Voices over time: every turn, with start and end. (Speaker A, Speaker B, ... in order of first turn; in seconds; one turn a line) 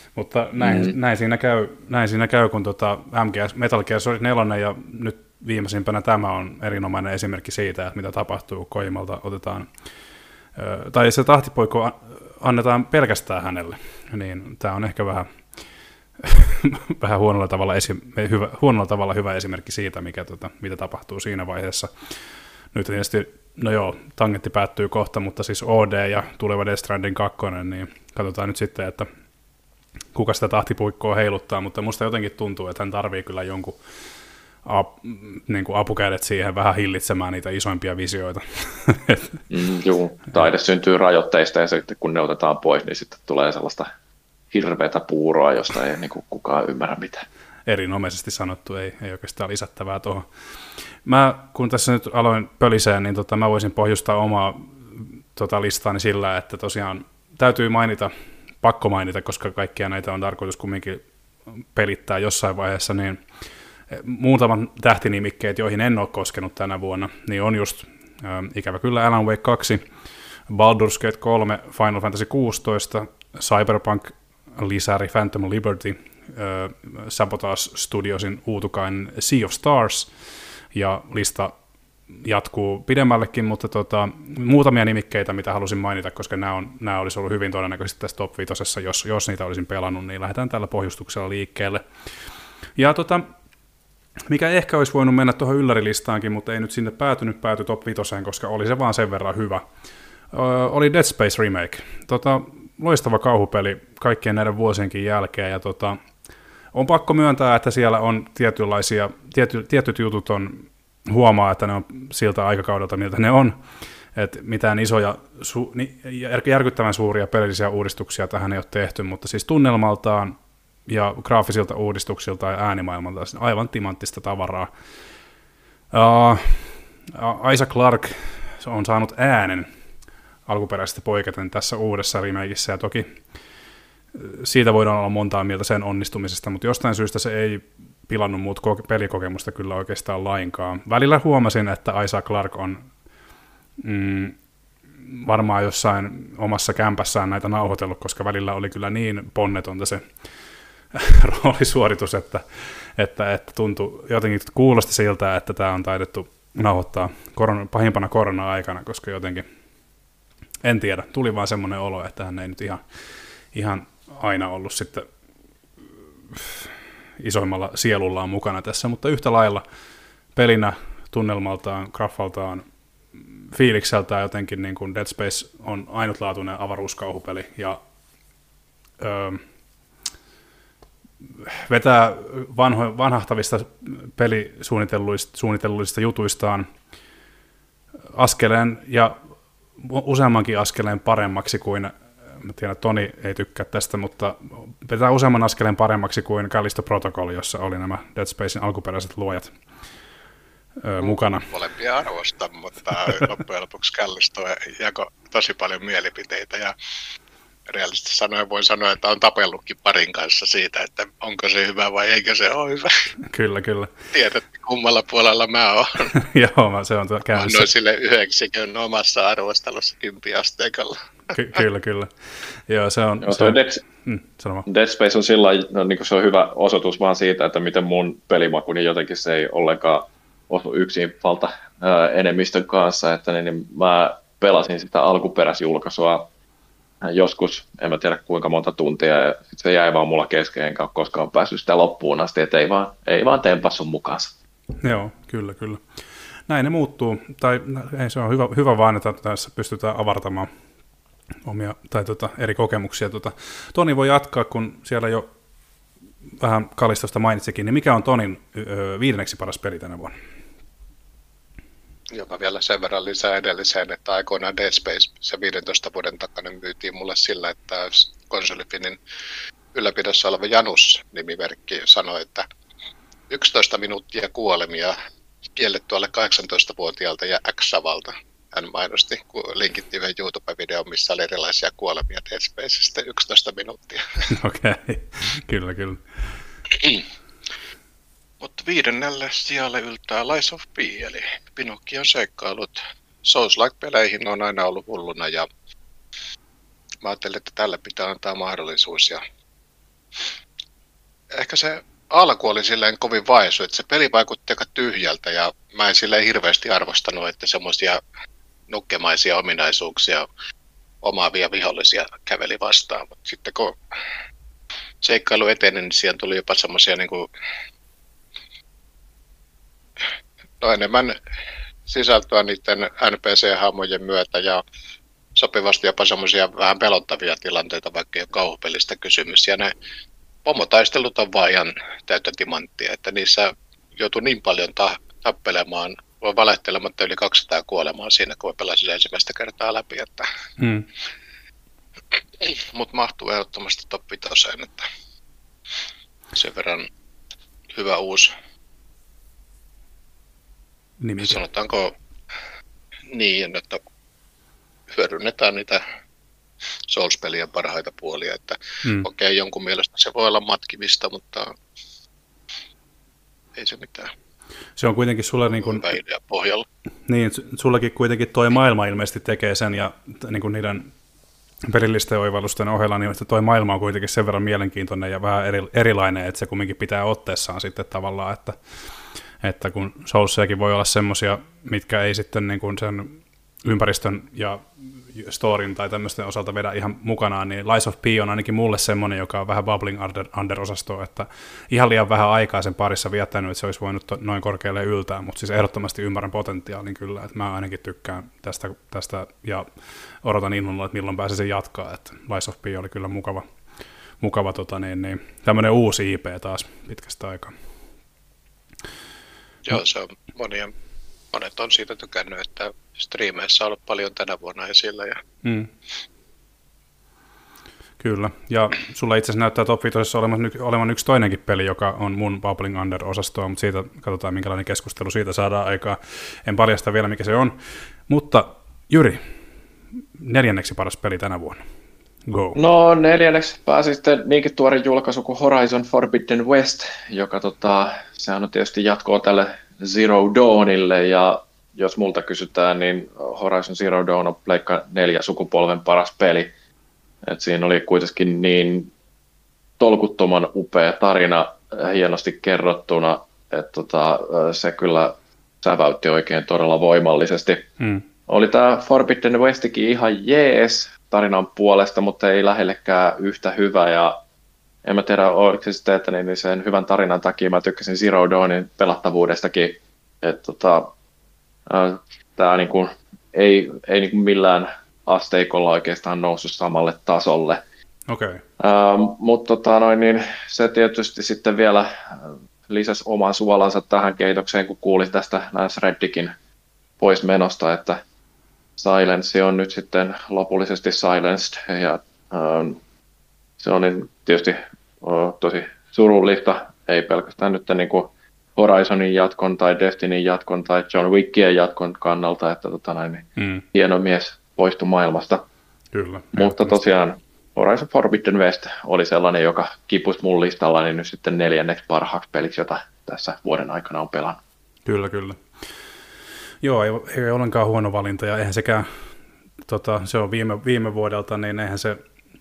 Speaker A: 0.1-9.7
Speaker B: 0.6-0.9
Speaker A: 10.6-15.4
Speaker A: 16.2-21.9
Speaker A: 22.7-29.1
Speaker A: 30.1-33.8
Speaker A: 34.6-39.4
Speaker B: 39.5-43.9
Speaker B: 44.5-47.2
Speaker A: 47.7-50.3
Speaker A: 51.0-61.0
Speaker A: 61.6-63.2
Speaker A: 63.9-69.8
Speaker A: 70.5-80.1
Speaker A: 80.7-81.5
Speaker A: 82.1-91.8
Speaker A: 92.8-93.3
Speaker A: 94.3-99.6
Speaker A: 100.3-106.0
Speaker A: 106.7-124.7
Speaker A: 125.9-129.7
Speaker A: 130.5-133.1
Speaker A: 134.1-142.9
Speaker A: 143.8-144.4
Speaker A: 145.0-150.1
Speaker A: 150.9-159.5
Speaker A: 160.6-162.8
Speaker A: 163.5-165.1
Speaker A: 166.3-169.6
Speaker A: 170.3-172.7
Speaker A: 173.2-177.8
Speaker A: 179.0-179.4
Speaker A: 181.3-186.7
Speaker A: 188.1-189.2
Speaker A: 189.8-199.5
Speaker A: 200.8-201.5
Speaker C: 201.0-206.7
Speaker C: 207.7-213.1
Speaker A: 213.2-213.9
Speaker C: 214.1-216.2
Speaker A: 216.1-217.7
Speaker C: 217.3-221.4
Speaker A: 221.3-222.1
Speaker A: 222.7-224.7
Speaker B: 223.2-223.8
Speaker B: 224.7-236.3
Speaker B: 237.0-244.3
Speaker A: 244.8-245.8
Speaker A: 246.5-250.5
Speaker A: 251.4-255.3
Speaker A: 256.4-260.2
Speaker C: 262.1-269.0
Speaker C: 269.7-272.5
Speaker C: 273.3-275.0
Speaker C: 275.6-284.3
Speaker A: 284.3-286.0
Speaker C: 288.4-295.5
Speaker C: 297.0-299.2
Speaker C: 301.3-308.0
Speaker C: 308.7-310.3
Speaker C: 311.0-313.8
Speaker C: 315.0-317.3
Speaker C: 320.6-321.1
Speaker C: 321.9-324.6
Speaker C: 325.4-329.7
Speaker C: 330.4-340.3
Speaker A: 340.6-340.9
Speaker C: 342.4-344.9
Speaker C: 346.3-346.9
Speaker C: 347.7-348.3
Speaker A: 351.0-351.4
Speaker C: 351.2-351.9
Speaker C: 353.1-353.8
Speaker C: 354.9-355.8
Speaker C: 356.9-361.5
Speaker C: 363.6-364.1
Speaker A: 364.8-365.9
Speaker C: 365.6-366.7
Speaker A: 367.1-370.9
Speaker A: 371.6-378.6
Speaker A: 379.4-399.7
Speaker A: 400.2-403.4
Speaker A: 404.2-407.6
Speaker C: 409.6-410.7
Speaker C: 411.3-415.2
Speaker A: 415.4-415.7
Speaker A: 418.0-429.2
Speaker A: 430.2-431.6
Speaker A: 432.3-432.6
Speaker B: 432.6-446.5
Speaker B: 447.3-448.9
Speaker B: 449.8-457.7
Speaker A: 457.8-458.1
Speaker B: 458.3-464.2
Speaker B: 464.9-470.9
Speaker B: 471.7-477.6
Speaker A: 478.1-478.4
Speaker B: 478.6-486.3
Speaker B: 487.0-488.0
Speaker B: 488.8-492.8
Speaker B: 493.6-505.4
Speaker A: 503.4-503.6
Speaker A: 505.9-506.8
Speaker B: 506.4-514.4
Speaker A: 514.9-515.4
Speaker A: 516.6-518.9
Speaker A: 519.6-522.0